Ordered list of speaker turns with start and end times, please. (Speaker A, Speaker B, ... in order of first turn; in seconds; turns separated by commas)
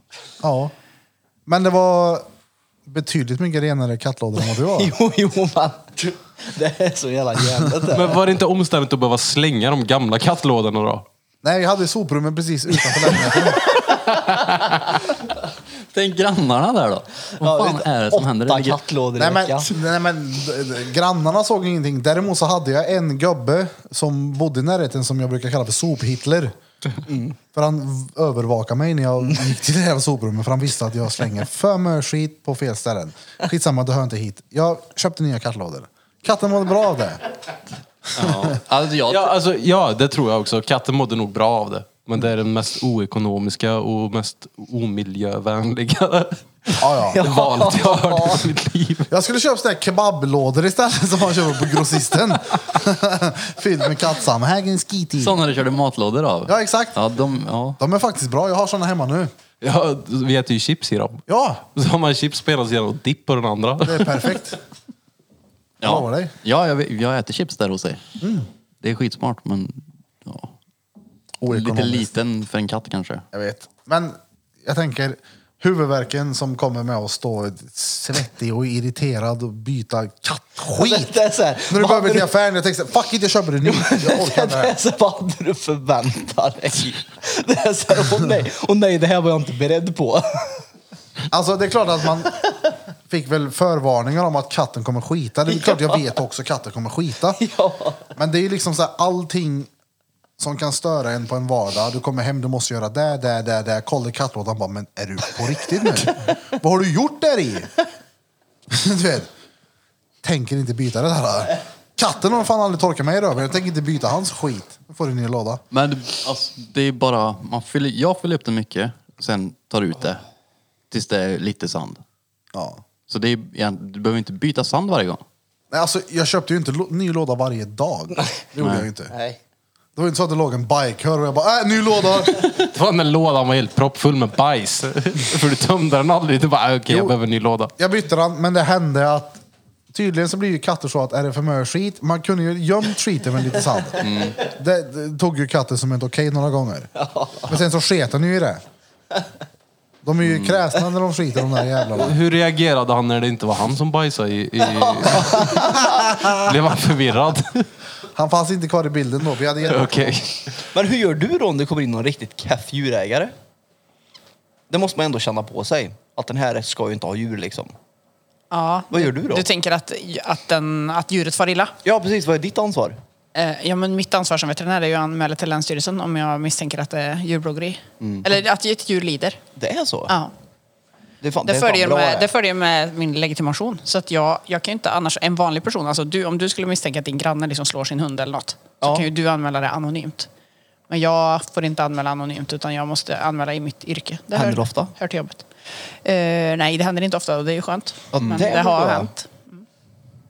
Speaker A: 0.4-0.7, Speaker A: 1.5-2.3, Speaker A: 2.9-5.0, Speaker B: 4.4-8.2, Speaker C: 7.9-11.1, Speaker A: 11.4-13.8, Speaker D: 15.9-18.8, Speaker B: 17.4-19.8, Speaker A: 19.2-26.5, Speaker B: 27.1-27.4, Speaker A: 27.5-37.2, Speaker D: 38.2-39.3, Speaker A: 38.2-38.5, Speaker C: 39.0-46.4, Speaker A: 46.8-47.2, Speaker B: 47.1-48.5, Speaker C: 47.2-49.1, Speaker A: 49.1-55.4, Speaker D: 55.2-57.8, Speaker A: 56.5-57.0, Speaker A: 57.8-59.3, Speaker C: 59.6-64.3, Speaker A: 61.3-61.6, Speaker A: 63.8-64.6, Speaker D: 65.8-68.0, Speaker A: 65.8-66.3, Speaker A: 68.2-68.5, Speaker D: 68.8-70.5, Speaker A: 71.4-72.1, Speaker D: 71.5-73.2, Speaker A: 73.3-81.1, Speaker B: 80.8-82.3, Speaker A: 81.7-84.8, Speaker B: 83.7-90.7, Speaker A: 91.3-92.4, Speaker A: 93.1-97.4, Speaker B: 95.5-96.0, Speaker B: 97.4-98.1, Speaker A: 98.2-99.7, Speaker A: 100.4-107.7, Speaker A: 108.7-109.3, Speaker A: 110.2-115.6, Speaker D: 115.7-120.2, Speaker D: 120.9-122.0, Speaker A: 122.5-122.8, Speaker D: 123.1-125.2, Speaker A: 125.7-129.1, Speaker D: 128.6-128.9, Speaker B: 129.1-129.4, Speaker A: 130.0-132.3, Speaker C: 132.4-137.7, Speaker A: 136.9-137.2, Speaker A: 137.8-139.4, Speaker A: 139.9-146.9, Speaker D: 144.0-144.4, Speaker B: 147.0-147.6, Speaker A: 147.5-148.6, Speaker A: 150.0-152.2, Speaker D: 150.2-150.6, Speaker C: 151.9-157.7, Speaker B: 154.6-155.9, Speaker A: 155.5-156.6, Speaker A: 158.1-160.2, Speaker C: 159.7-160.3, Speaker B: 160.7-163.3, Speaker B: 164.7-167.7, Speaker E: 168.5-171.8, Speaker B: 168.9-169.4, Speaker B: 171.8-173.0, Speaker E: 173.3-179.4, Speaker B: 179.6-180.1, Speaker E: 180.1-180.3, Speaker B: 181.2-182.3, Speaker E: 181.5-190.3, Speaker B: 188.8-189.1, Speaker E: 190.9-195.5, Speaker B: 194.3-194.9, Speaker E: 196.0-199.6, Speaker B: 198.1-199.1, Speaker D: 198.2-198.5